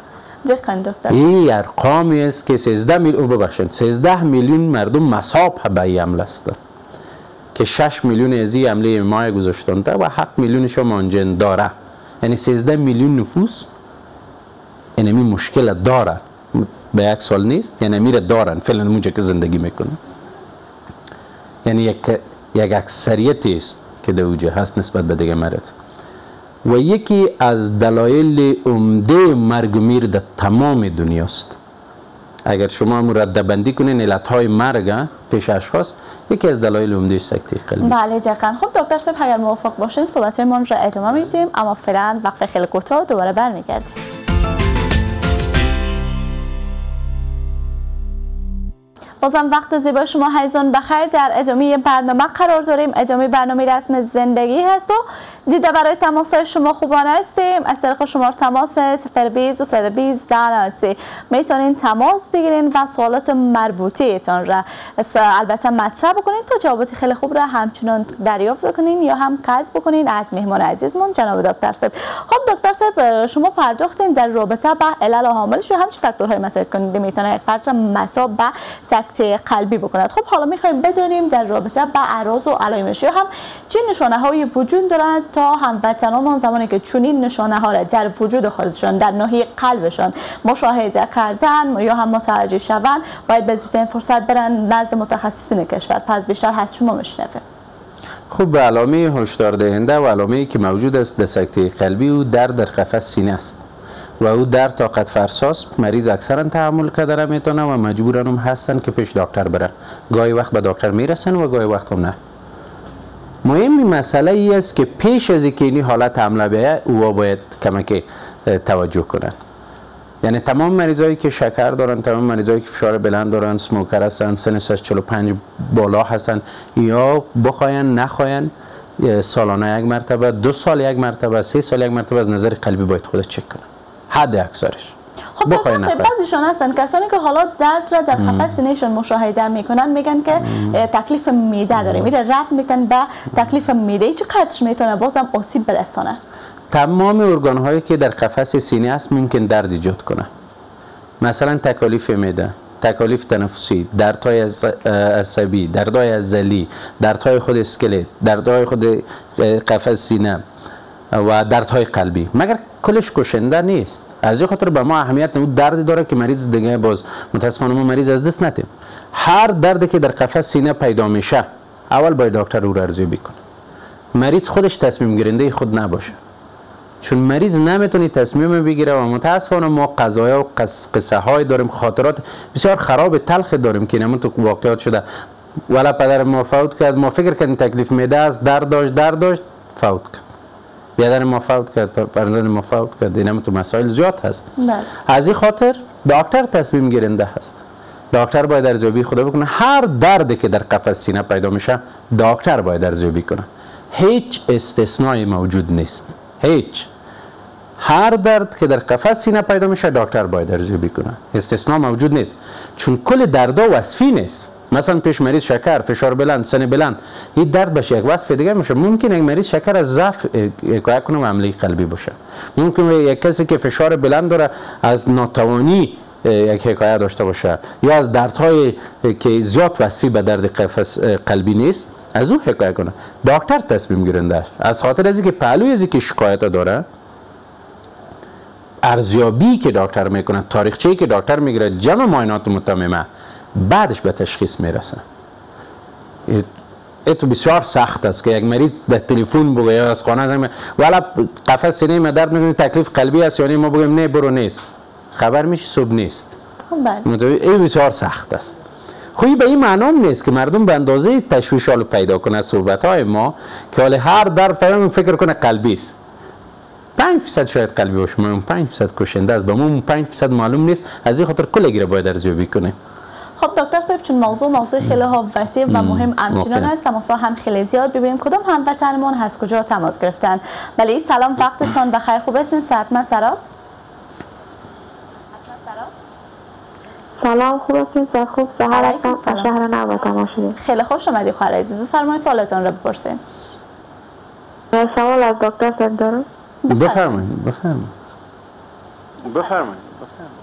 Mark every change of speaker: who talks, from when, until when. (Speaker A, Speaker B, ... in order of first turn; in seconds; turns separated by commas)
Speaker A: 0.5-1.2, Speaker B: 1.1-6.6, Speaker B: 7.5-13.7, Speaker B: 15.0-20.0, Speaker B: 21.6-25.8, Speaker B: 26.6-31.6, Speaker B: 32.5-38.0, Speaker A: 37.8-44.0, Speaker A: 49.2-97.4, Speaker B: 98.3-103.6, Speaker B: 104.2-112.2, Speaker B: 113.4-119.4, Speaker B: 120.2-136.1, Speaker A: 135.4-146.2, Speaker B: 138.2-138.5, Speaker B: 140.5-140.7, Speaker B: 146.7-150.3, Speaker B: 151.2-160.4, Speaker B: 161.1-173.4, Speaker B: 174.2-176.2, Speaker B: 177.0-185.1, Speaker B: 185.7-190.2, Speaker B: 191.0-194.4, Speaker A: 194.6-194.9, Speaker B: 195.0-206.9, Speaker B: 207.8-236.8, Speaker B: 238.8-245.0, Speaker B: 247.1-256.4, Speaker A: 256.7-257.1, Speaker B: 257.1-258.6, Speaker B: 259.1-265.9, Speaker B: 267.0-272.8, Speaker A: 273.4-283.4, Speaker B: 275.7-276.7, Speaker C: 287.2-290.6, Speaker A: 288.7-289.5, Speaker A: 290.6-293.2, Speaker C: 294.7-296.3, Speaker A: 296.6-297.2, Speaker B: 296.7-297.9, Speaker B: 299.2-300.3